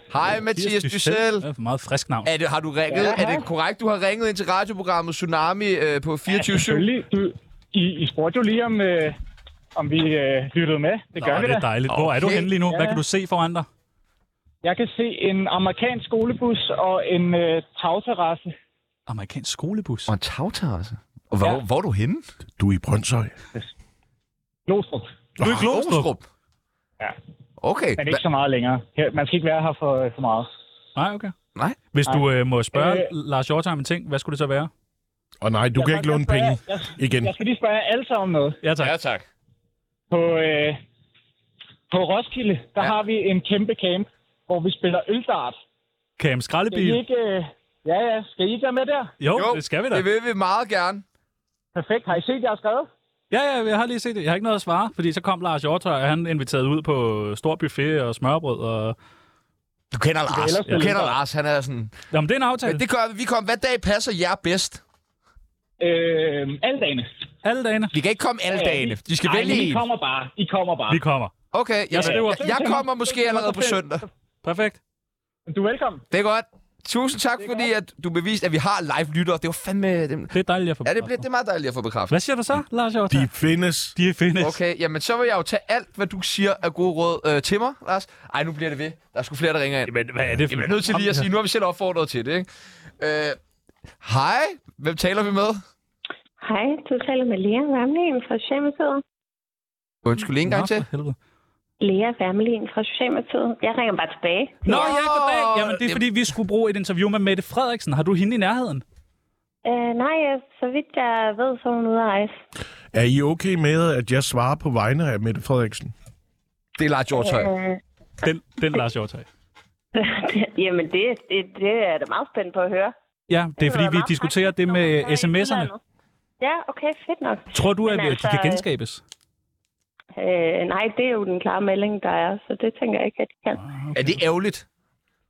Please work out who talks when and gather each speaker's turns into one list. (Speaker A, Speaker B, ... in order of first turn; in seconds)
Speaker A: 0.1-1.5, 2.2-6.9, 11.9-12.5, 20.1-22.2, 25.5-26.2, 27.6-28.2, 38.8-39.2, 49.4-51.0, 59.9-62.0, 62.6-64.8, 67.9-69.8, 71.5-74.0, 76.1-80.3, 80.8-82.1, 84.4-89.9, 90.5-92.5, 93.0-93.4, 94.0-95.6, 100.0-100.8, 104.7-106.0, 116.8-117.5, 133.9-134.6
Speaker B: 0.6-2.3, 11.2-13.7, 19.1-20.1, 25.4-26.1, 31.0-31.3, 31.9-34.7, 38.6-38.9, 46.2-47.0, 49.2-50.0, 53.3-59.0, 60.7-60.9, 62.1-62.8, 67.4-67.9, 70.9-71.3, 71.9-72.5, 74.4-74.8, 80.3-81.2, 82.1-83.3, 84.0-84.6, 89.8-91.3, 100.4-101.2, 104.7-108.8, 118.2-119.3, 123.3-125.7, 127.5-129.0, 133.6-134.2
Speaker C: 2.9-3.4, 6.3-9.2, 9.8-11.7, 12.7-13.0, 14.6-18.5, 24.7-25.1, 28.0-30.5, 32.1-33.1, 35.8-38.6, 40.1-40.8, 41.9-45.6, 46.7-49.1, 51.8-52.9, 60.3-61.2, 65.8-67.1, 68.5-71.0, 71.9-74.0, 75.5-76.0, 77.4-77.7
Speaker D: 22.6-23.3, 25.4-25.7, 35.4-37.4, 83.1-84.0, 112.9-115.9
Speaker E: 96.4-99.0, 101.8-104.6, 109.7-112.4, 117.2-117.8, 120.0-122.9, 123.6-125.8, 126.4-128.6, 130.2-133.6